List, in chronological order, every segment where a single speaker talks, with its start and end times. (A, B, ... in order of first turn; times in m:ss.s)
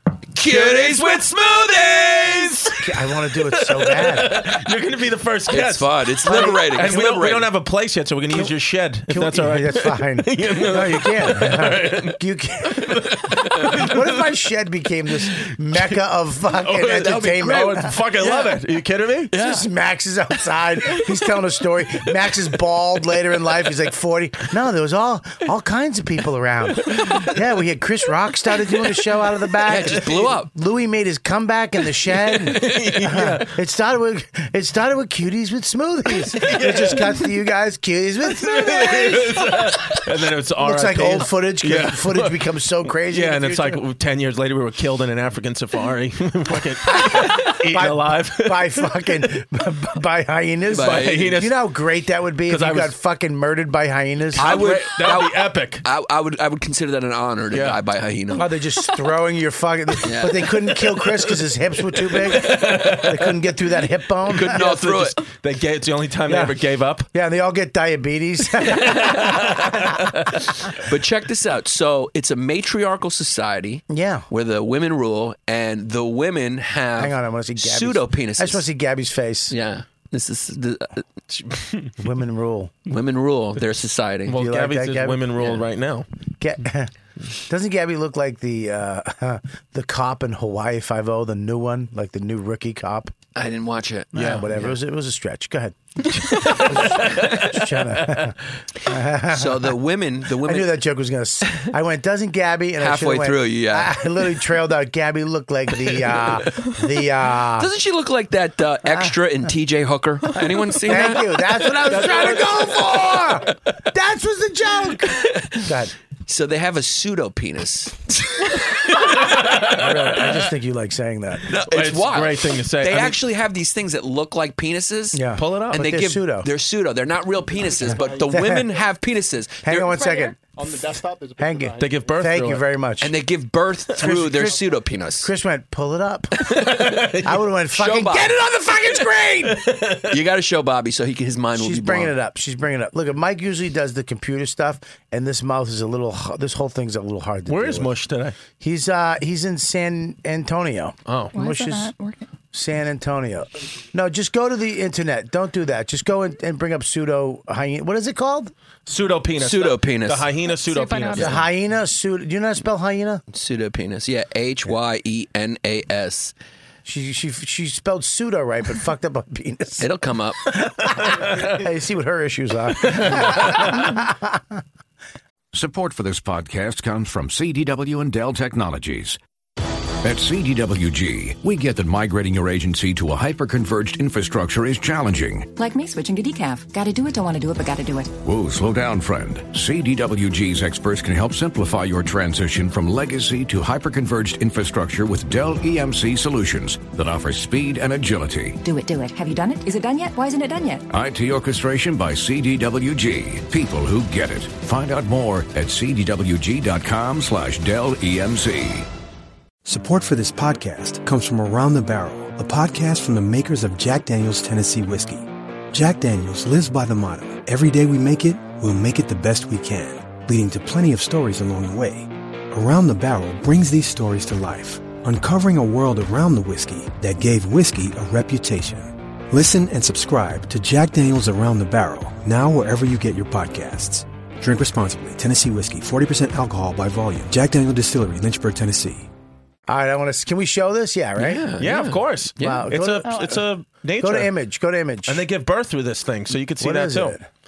0:00.3-0:02.7 A
0:00.4-0:02.8 B
0:02.8-0:04.6 C
0:03.5-0:14.1 B
0:05.5-0:07.5 A
0:06.3-0:06.6 C
0:09.1-0:18.5 C
0:15.5-0:16.0 B
0:16.5-0:19.3 B
0:17.1-0:17.6 A
0:19.3-0:19.6 A
0:19.3-0:39.8 C
0:29.6-0:30.5 A
0:32.4-0:33.5 B
0:32.5-0:33.0 A
0:36.4-0:37.2 B
0:38.3-0:42.4 B
0:40.6-0:43.8 C
0:43.1-0:48.9 B
0:46.9-0:54.7 C
0:50.7-0:51.4 A
0:50.8-0:51.6 B
0:52.5-0:52.9 B
0:54.4-0:55.8 B
0:54.4-0:58.5 A
0:57.5-0:57.8 B
0:58.3-1:04.6 C
1:00.0-1:00.6 A
1:02.0-1:03.4 B
1:04.3-1:05.2 A
1:04.4-1:07.1 B
1:06.3-1:06.6 C
1:07.1-1:09.8 C
1:08.8-1:10.4 B
1:10.8-1:18.6 A
1:13.9-1:14.3 C
1:17.0-1:19.5 C
1:19.5-1:21.0 A
1:21.3-1:21.9 B
1:22.0-1:22.7 C
1:22.8-1:24.3 A
1:24.3-1:26.0 B
1:24.3-1:25.3 C
1:25.4-1:25.6 A
1:26.4-1:26.9 C
1:27.5-1:33.1 C
1:33.3-1:34.7 A
1:34.1-1:39.8 C
1:34.1-1:34.5 B
1:36.3-1:38.3 B
1:39.3-1:40.8 A
1:40.4-1:47.7 C
1:42.8-1:44.0 A
1:47.6-1:51.4 A
1:50.8-1:55.9 C
1:51.8-1:53.2 B
1:52.0-1:53.2 A
1:55.1-1:55.7 A
1:56.3-1:59.3 A
1:58.9-2:00.3 B
1:59.6-2:01.5 C
2:01.5-2:09.9 A
2:01.7-2:03.2 B
2:05.1-2:06.5 C
2:05.4-2:05.8 B
2:07.8-2:08.4 D
2:08.3-2:08.7 C
2:09.6-2:10.4 C
2:09.9-2:10.3 E
2:10.6-2:12.1 D
2:11.4-2:13.1 C
2:11.8-2:12.6 B
2:13.0-2:15.3 A
2:14.0-2:14.6 C
2:14.0-2:14.3 B
2:15.2-2:19.6 C
2:16.4-2:17.4 B
2:17.7-2:18.4 A
2:19.4-2:20.2 B
2:20.0-2:22.1 A
2:21.6-2:27.9 C
2:27.5-2:28.4 B
2:28.6-2:31.9 C
2:31.1-2:31.3 B
2:31.3-2:32.3 E
2:32.5-2:38.5 C
2:38.8-2:41.4 B
2:39.4-2:40.3 A
2:40.5-2:41.3 E
2:41.1-2:41.4 A
2:41.2-2:43.2 C
2:43.3-2:46.3 A
2:46.8-2:49.9 C
2:49.8-2:50.4 A
2:50.5-2:54.6 C
2:51.1-2:51.6 B
2:52.8-2:53.8 B
2:55.5-2:59.2 F
3:00.0-3:05.5 F
3:05.5-3:08.1 G
3:08.2-3:18.6 F
3:18.6-3:20.8 G
3:20.9-3:28.9 F
3:29.6-3:59.1 H
3:59.7-4:01.4 C
4:01.2-4:02.6 A
4:01.6-4:04.3 B
4:02.4-4:03.4 C
4:03.0-4:03.4 E
4:04.0-4:05.2 C
4:05.1-4:07.2 B
4:06.6-4:07.2 C